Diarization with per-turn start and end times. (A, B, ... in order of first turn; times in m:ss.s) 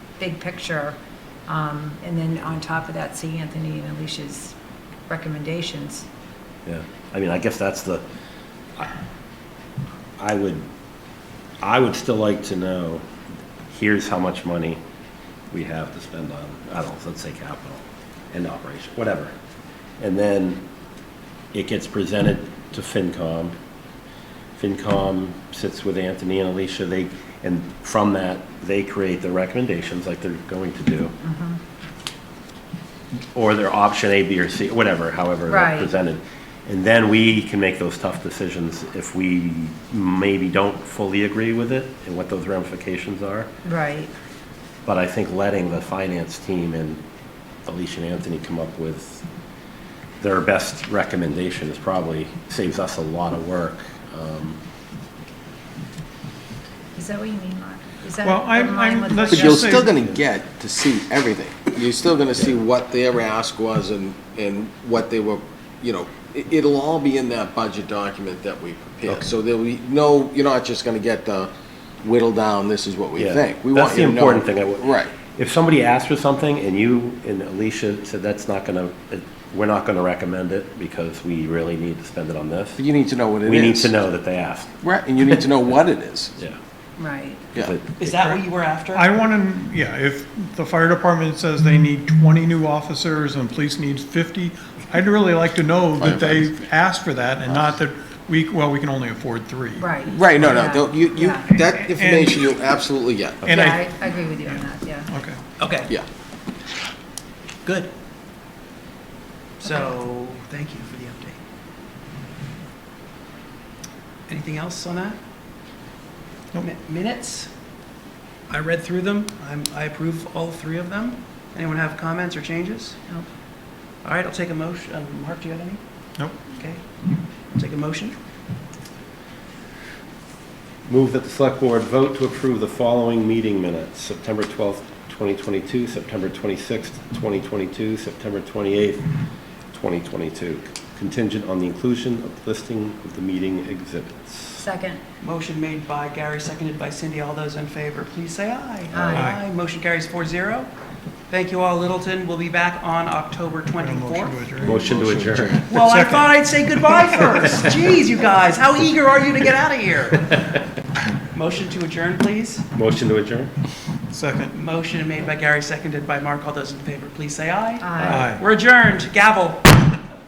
0:00.2-0:04.6 A
0:05.1-0:06.1 A
0:06.7-0:08.0 B
0:10.2-0:10.6 B
0:11.6-0:13.0 B
0:13.7-0:14.8 B
0:15.5-0:19.3 B
0:20.0-0:20.6 B
0:21.5-0:23.6 B
0:24.6-0:31.2 B
0:31.2-0:31.6 A
0:33.3-0:43.5 B
0:35.5-0:35.9 A
0:43.6-0:44.1 A
0:44.8-0:47.0 B
0:47.7-0:49.2 B
0:50.2-0:54.6 B
0:57.0-0:59.9 A
0:58.2-0:59.9 C
0:59.3-1:11.5 D
1:12.0-1:15.1 D
1:13.2-1:22.8 B
1:22.8-1:23.9 D
1:23.5-1:24.8 B
1:24.8-1:26.4 D
1:27.0-1:27.4 A
1:27.6-1:28.3 B
1:28.0-1:29.1 E
1:28.9-1:40.5 C
1:36.0-1:36.3 D
1:39.8-1:41.4 A
1:40.1-1:43.4 D
1:41.6-1:42.4 C
1:43.4-1:45.4 C
1:43.5-1:45.1 A
1:45.6-1:45.9 E
1:47.6-1:47.9 E
1:49.6-1:51.4 E
1:54.3-1:55.2 E
1:56.6-1:57.5 E
1:58.5-2:03.0 E
2:04.0-2:05.8 E
2:06.5-2:06.8 E
2:07.5-2:08.2 E
2:10.9-2:19.1 B
2:19.7-2:24.6 B
2:24.6-2:25.0 A
2:25.2-2:30.7 E
2:28.9-2:29.3 A
2:29.2-2:29.4 C
2:31.3-2:34.5 E
2:33.8-2:35.2 C
2:34.6-2:35.7 B
2:34.7-2:35.7 D
2:35.7-2:40.6 E
2:35.8-2:36.3 C
2:41.3-2:42.7 E
2:42.7-2:43.5 B
2:44.1-2:44.6 C
2:44.5-2:49.8 E
2:47.8-2:48.3 A
2:48.0-2:48.3 B
2:48.1-2:48.4 C